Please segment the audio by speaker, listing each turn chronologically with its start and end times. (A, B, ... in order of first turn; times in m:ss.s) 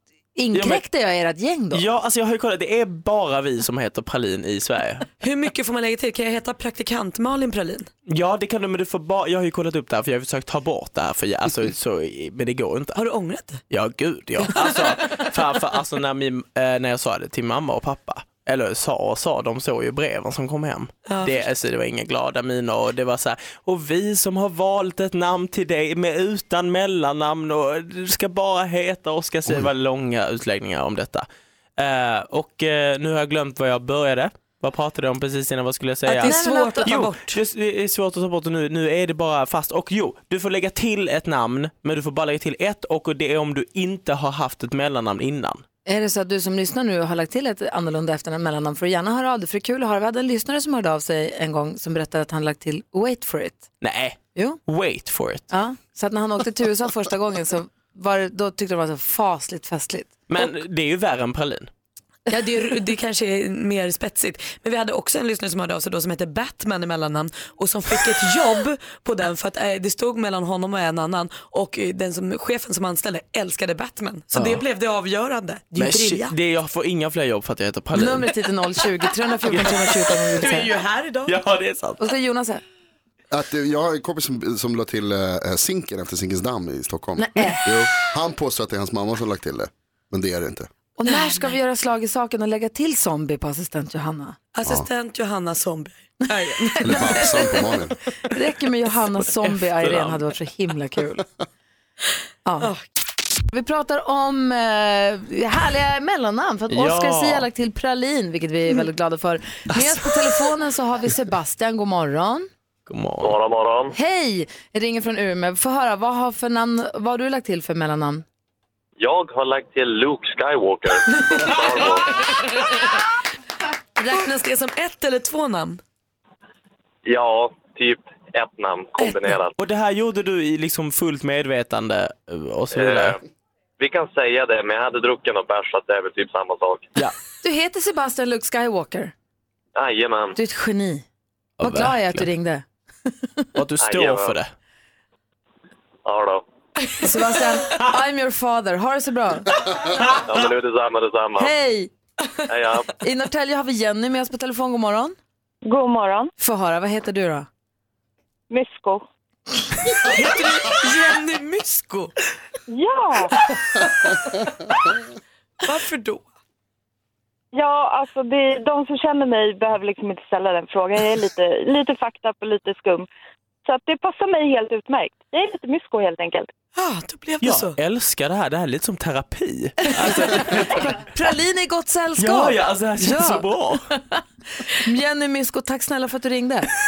0:00.4-0:01.8 A
0:00.5-0:00.8 B
0:01.7-0:05.1 B
0:05.2-0:07.9 C
0:08.0-0:13.0 B
0:13.0-0:13.6 C
0:13.7-0:31.2 B
0:14.5-0:15.2 C
0:21.1-0:21.4 C
0:31.8-0:45.6 B
0:36.1-0:37.4 C
0:36.2-0:37.0 A
0:45.8-0:53.7 A
0:53.8-0:55.5 B
0:55.5-1:00.2 A
1:00.3-1:01.7 B
1:02.3-1:16.3 C
1:14.3-1:14.6 B
1:15.8-1:18.3 B
1:17.9-1:20.7 A
1:19.5-1:19.9 B
1:20.4-1:21.4 C
1:21.2-1:22.0 B
1:22.0-1:22.6 A
1:23.3-1:30.7 D
1:27.2-1:27.7 A
1:31.0-1:34.4 A
1:31.0-1:31.5 C
1:34.5-1:37.6 C
1:36.6-1:37.6 A
1:36.8-1:38.0 D
1:38.3-1:41.2 A
1:39.4-1:40.2 B
1:42.4-1:42.7 A
1:43.5-1:52.5 A
1:46.7-1:47.5 B
1:49.7-1:50.0 B
1:52.9-1:53.4 B
1:53.2-1:53.9 E
1:53.9-1:58.2 A
1:59.0-2:02.2 E
2:04.0-2:05.8 C
2:07.0-2:09.5 E
2:09.6-2:13.2 B
2:12.7-2:13.2 E
2:13.8-2:16.9 E
2:17.4-2:19.1 A
2:19.8-2:20.4 E
2:20.4-2:21.0 A
2:21.6-2:22.3 B
2:21.6-2:23.4 A
2:23.5-2:24.5 B
2:23.8-2:24.4 E
2:26.0-2:26.4 E
2:27.0-2:29.5 A
2:29.9-2:30.4 B
2:30.2-2:31.5 E
2:31.4-2:31.9 A
2:32.5-2:32.9 E
2:33.0-2:35.2 A
2:35.6-2:36.3 F
2:36.4-2:37.5 A
2:38.5-2:39.0 F
2:40.0-2:42.1 C
2:42.7-2:43.3 F
2:45.6-2:46.2 C
2:47.5-2:53.1 F
2:53.6-2:56.5 F
2:56.8-2:57.8 C
2:57.4-3:00.9 B
3:00.0-3:06.7 A
3:02.2-3:03.9 B